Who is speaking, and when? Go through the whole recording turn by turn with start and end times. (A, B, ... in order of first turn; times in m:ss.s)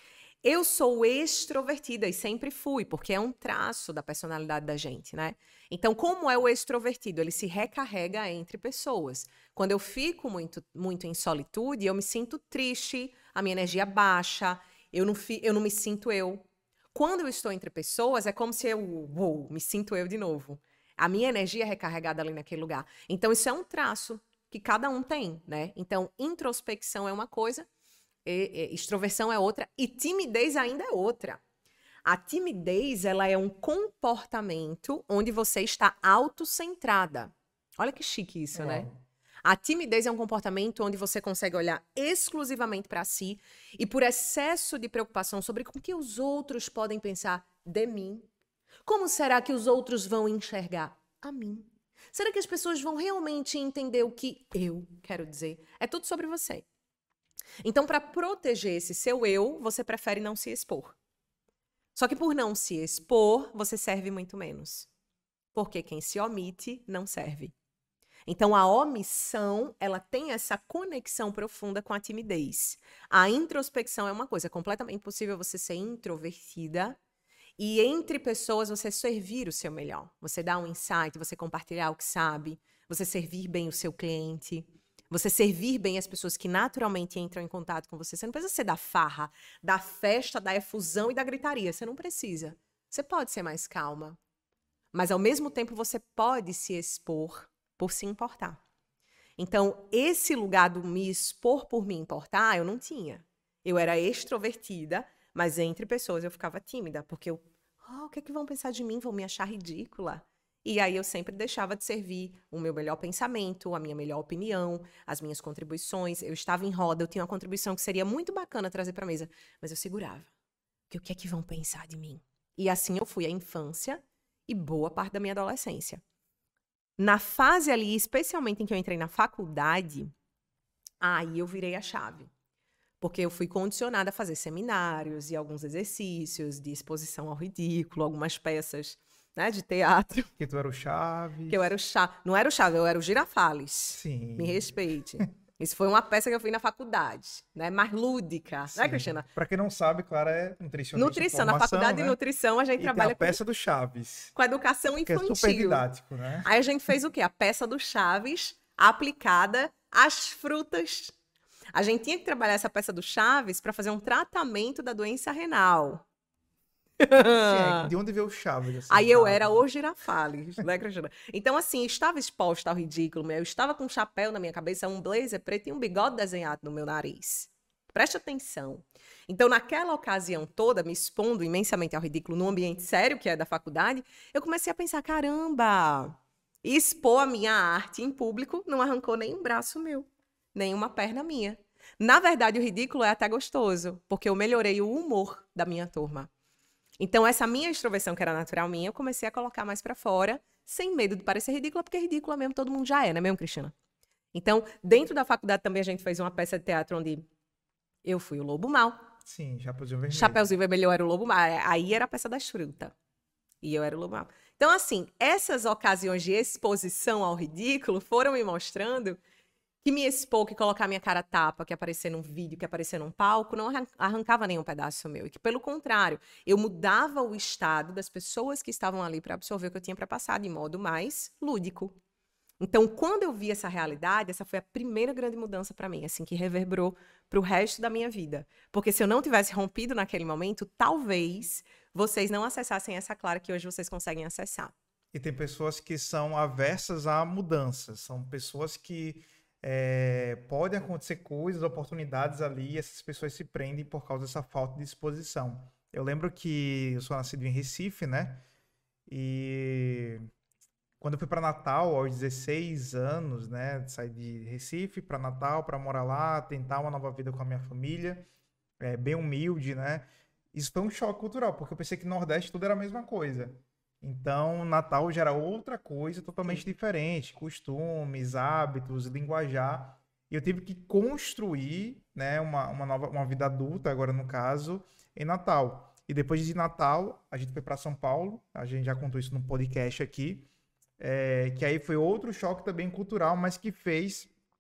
0:00.4-0:27.7 A
0:28.2-0:31.4 A
0:32.1-0:38.9 A
0:38.5-0:39.0 B
0:39.4-0:48.3 A
0:48.9-0:56.6 A
0:57.6-1:01.0 A
1:02.0-1:04.9 A
1:05.5-1:07.5 A
1:08.2-1:17.0 A
1:17.6-1:34.2 A
1:34.9-1:38.6 A
1:39.4-2:00.3 A
2:00.9-2:06.0 A
2:07.0-2:10.1 A
2:11.0-2:12.3 A
2:13.0-2:20.3 A
2:20.4-2:21.7 B
2:21.5-2:29.3 A
2:23.9-2:25.2 B
2:28.7-2:32.2 B
2:31.0-2:33.4 A
2:32.8-2:34.3 B
2:34.4-2:35.8 A
2:35.0-2:36.5 B
2:36.4-2:41.1 A
2:41.7-2:46.0 A
2:47.0-2:47.9 A
2:47.2-2:49.6 B
2:48.9-3:16.3 A
3:17.0-3:23.7 A
3:24.3-3:27.2 A
3:28.0-3:29.1 A
3:29.2-3:30.5 B
3:30.1-3:32.9 A
3:33.6-3:39.2 A
3:39.8-3:52.0 A
3:52.6-4:04.7 A
4:05.1-4:18.4 B
4:19.1-4:20.2 B
4:21.0-4:28.2 B
4:28.8-4:50.5 B
4:51.0-4:54.3 B